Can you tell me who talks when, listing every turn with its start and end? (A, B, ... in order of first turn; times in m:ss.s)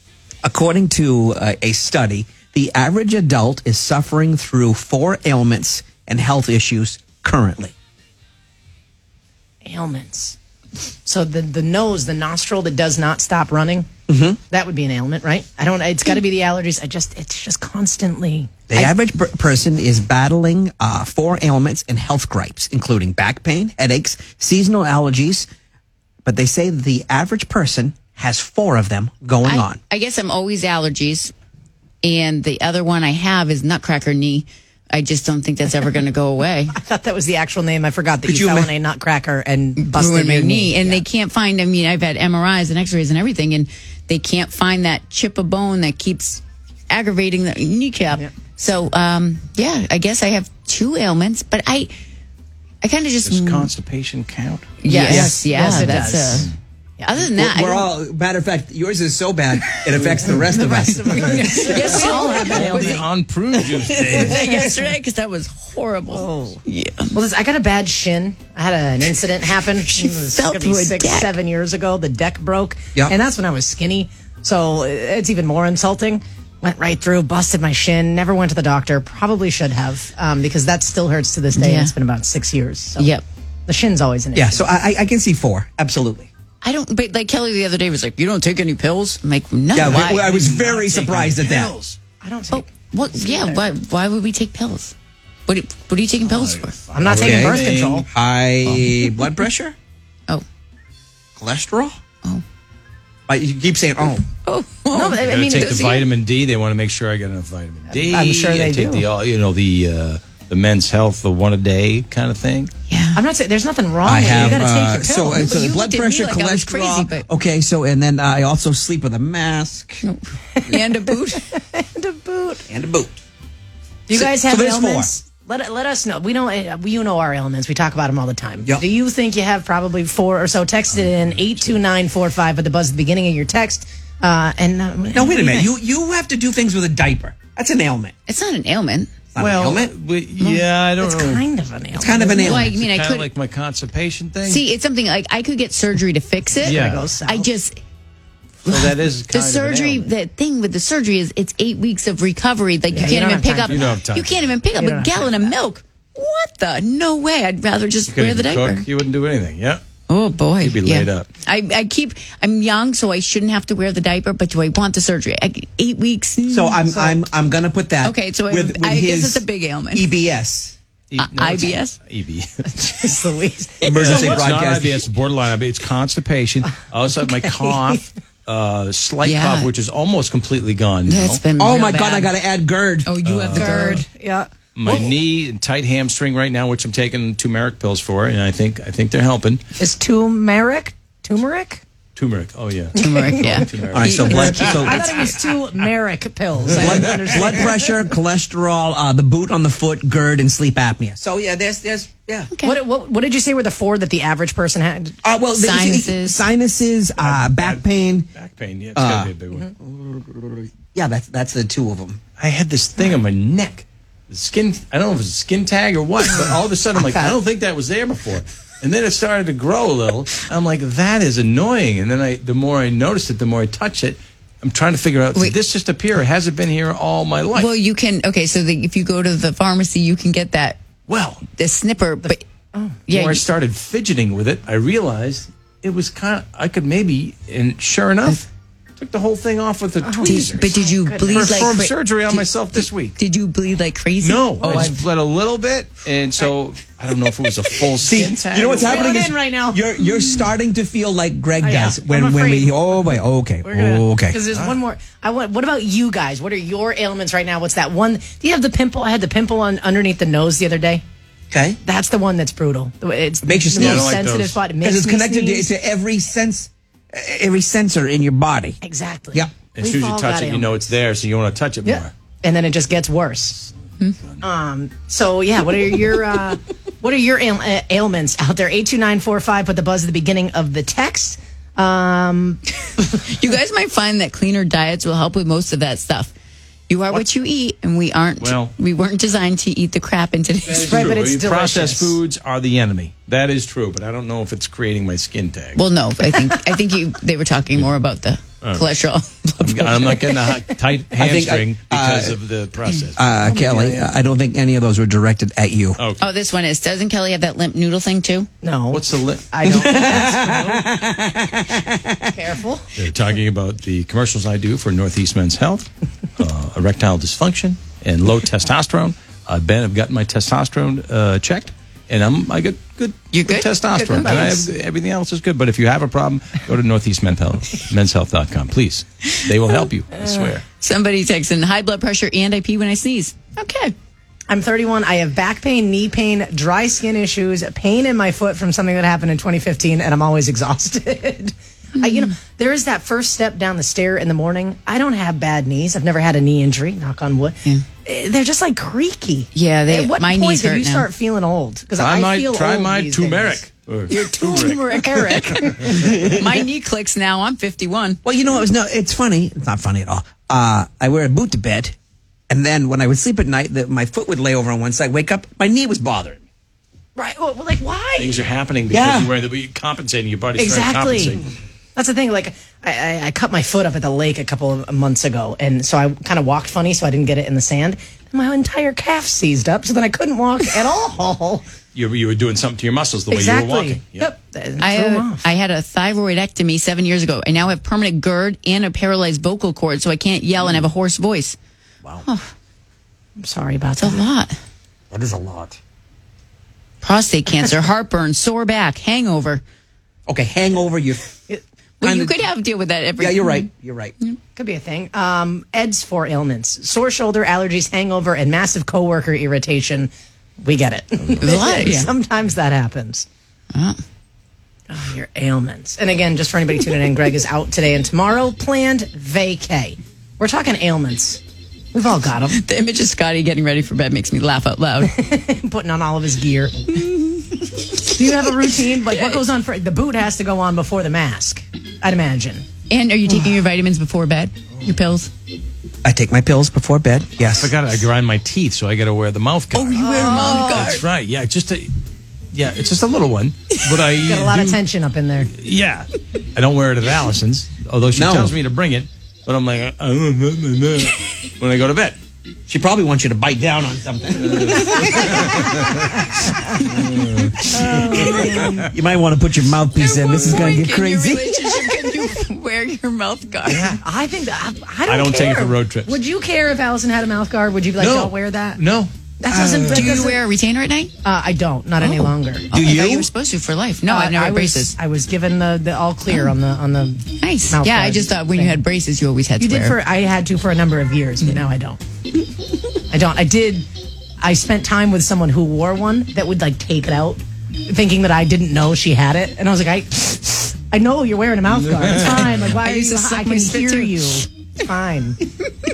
0:00.4-0:07.7 A
0:09.6-0:10.4 B
0:11.0-0:13.9 B
0:14.1-0:14.4 A
0:14.5-0:18.5 B
0:18.7-0:25.5 A
0:26.2-0:29.8 A
0:29.4-0:31.3 C
0:32.0-0:36.7 C
0:35.7-0:36.0 B
0:36.7-0:41.0 B
0:38.3-0:38.7 A
0:39.8-0:51.9 C
0:52.8-0:53.7 C
0:53.2-0:55.5 D
0:54.8-0:56.5 C
0:54.9-0:56.5 B
0:56.1-0:56.5 D
0:57.0-0:57.3 B
0:57.0-0:57.9 C
0:57.4-1:01.9 A
1:00.1-1:03.0 B
1:01.4-1:03.0 C
1:01.9-1:04.5 D
1:03.7-1:04.2 A
1:03.9-1:07.1 C
1:04.1-1:04.9 B
1:06.1-1:06.6 B
1:07.1-1:23.1 B
1:09.8-1:11.3 C
1:21.5-1:21.9 C
1:23.0-1:23.2 C
1:23.7-1:24.7 B
1:24.3-1:26.3 A
1:26.6-1:30.3 C
1:29.7-1:31.7 A
1:29.9-1:32.0 D
1:32.2-1:33.7 B
1:32.5-1:34.9 C
1:35.5-1:36.8 C
1:36.2-1:38.1 D
1:36.9-1:38.1 B
1:37.1-1:39.7 A
1:38.6-1:39.0 C
1:41.4-1:42.0 A
1:43.3-1:44.2 A
1:44.4-1:46.1 C
1:44.9-1:45.8 B
1:45.2-1:52.7 D
1:47.9-1:49.1 B
1:52.9-1:53.2 C
1:53.1-1:55.6 B
1:54.0-2:00.0 A
1:55.3-1:57.2 C
2:00.0-2:01.4 C
2:00.5-2:02.6 B
2:02.7-2:03.2 A
2:04.1-2:15.7 B
2:04.1-2:05.1 A
2:15.1-2:18.1 A
2:18.3-2:19.1 C
2:19.3-2:19.9 A
2:19.4-2:21.4 D
2:20.4-2:20.7 C
2:21.0-2:22.7 B
2:21.9-2:22.8 A
2:22.4-2:23.3 C
2:22.5-2:24.6 D
2:24.5-2:27.8 C
2:26.6-2:27.5 B
2:26.6-2:27.1 D
2:28.6-2:30.1 D
2:28.6-2:38.8 C
2:32.9-2:34.5 D
2:32.9-2:34.0 B
2:34.7-2:35.6 B
2:38.1-2:39.8 D
2:40.1-2:46.8 C
2:40.6-2:41.3 D
2:46.5-2:50.7 A
2:46.9-2:47.2 B
2:48.0-2:50.1 C
2:51.1-2:52.6 D
2:51.2-2:52.0 C
2:52.7-2:54.5 B
2:53.8-2:55.0 A
2:53.8-3:01.4 D
2:57.3-2:58.0 B
2:59.2-2:59.7 C
3:01.0-3:02.3 C
3:01.6-3:03.1 A
3:03.0-3:04.0 C
3:03.2-3:04.0 D
3:03.5-3:05.1 B
3:04.8-3:09.6 D
3:09.8-3:11.8 B
3:12.2-3:14.8 D
3:12.9-3:13.6 B
3:13.0-3:15.3 C
3:13.9-3:15.0 A
3:14.2-3:18.0 B
3:16.8-3:22.5 A
3:22.5-3:22.8 C
3:22.6-3:25.2 B
3:25.2-3:28.3 A
3:25.5-3:26.4 C
3:27.2-3:29.7 D
3:29.0-3:32.2 A
3:32.4-3:47.7 D
3:47.6-3:50.8 C
3:51.1-3:51.5 D
3:51.5-3:52.4 C
3:52.7-3:53.0 B
3:53.1-3:53.4 C
3:53.1-4:00.7 D
4:00.0-4:01.8 B
4:00.2-4:04.9 C
4:01.2-4:03.2 D
4:04.2-4:09.2 D
4:04.6-4:05.0 B
4:08.0-4:14.4 A
4:08.6-4:09.8 B
4:11.6-4:21.0 B
4:14.5-4:14.8 D
4:21.5-4:21.8 A
4:21.8-4:25.7 B
4:23.4-4:24.2 A
4:23.7-4:24.6 D
4:24.8-4:28.8 A
4:28.8-4:30.9 B
4:29.7-4:32.1 D
4:31.8-4:33.6 B
4:34.4-4:42.6 B
4:43.0-4:46.3 C
4:46.9-4:51.1 C
4:48.4-4:48.7 D
4:50.6-4:55.8 D
4:50.8-4:52.2 B
4:55.7-5:00.5 C
4:59.6-5:03.6 D
5:01.2-5:02.4 A
5:03.2-5:06.0 A
5:03.4-5:04.0 B
5:06.0-5:06.2 D
5:06.2-5:08.5 C
5:08.6-5:10.7 B
5:08.9-5:10.8 D
5:09.6-5:12.3 A
5:12.2-5:12.9 B
5:13.0-5:30.6 D
5:23.3-5:24.6 C
5:23.9-5:24.7 B
5:30.8-5:33.9 C
5:34.5-5:53.6 B
5:42.0-5:42.3 C
5:49.5-5:51.1 C
5:52.0-5:54.8 D
5:54.1-5:58.2 C
5:55.0-5:56.0 B
5:55.8-5:56.2 D
5:55.9-5:56.5 A
5:58.2-6:01.9 A
6:02.5-6:06.4 A
6:07.2-6:08.4 B
6:08.2-6:11.5 D
6:08.9-6:09.3 A
6:10.6-6:11.4 B
6:12.0-6:21.6 B
6:21.9-6:24.3 D
6:23.3-6:25.5 B
6:24.8-6:31.6 C
6:32.2-6:32.5 C
6:33.4-6:34.2 B
6:34.0-6:34.5 C
6:35.1-6:35.8 A
6:37.0-6:39.6 C
6:40.3-6:41.4 A
6:42.0-6:43.7 C
6:42.0-6:42.4 A
6:43.2-6:44.1 A
6:44.6-6:50.1 B
6:50.6-6:53.2 B
6:51.4-6:52.1 C
6:54.9-7:01.4 B
7:01.9-7:02.6 B
7:02.5-7:05.1 C
7:05.0-7:07.0 B
7:07.0-7:07.7 C
7:08.0-7:12.6 B
7:09.1-7:09.4 C
7:12.9-7:15.3 C
7:16.0-7:17.7 A
7:17.6-7:21.9 D
7:19.7-7:21.0 C
7:20.0-7:20.9 B
7:22.5-7:24.8 D
7:24.2-7:25.5 B
7:25.5-7:32.2 D
7:28.1-7:28.5 A
7:32.7-7:36.9 A
7:34.4-7:36.2 D
7:36.8-7:38.9 D
7:37.6-7:42.2 A
7:37.7-7:38.7 B
7:39.9-7:43.9 C
7:40.2-7:40.7 D
7:43.6-7:44.0 D
7:43.7-7:48.8 B
7:45.1-7:46.2 D
7:48.0-7:50.3 D
7:49.4-7:50.4 B
7:49.7-7:51.1 C
7:51.2-7:52.7 B
7:52.0-7:54.9 C
7:52.7-7:53.3 A
7:54.0-7:58.8 B
7:57.4-8:00.0 C
7:59.6-8:02.0 B
8:03.1-8:03.9 B
8:04.4-8:15.4 B
8:11.7-8:12.8 D
8:12.7-8:14.4 C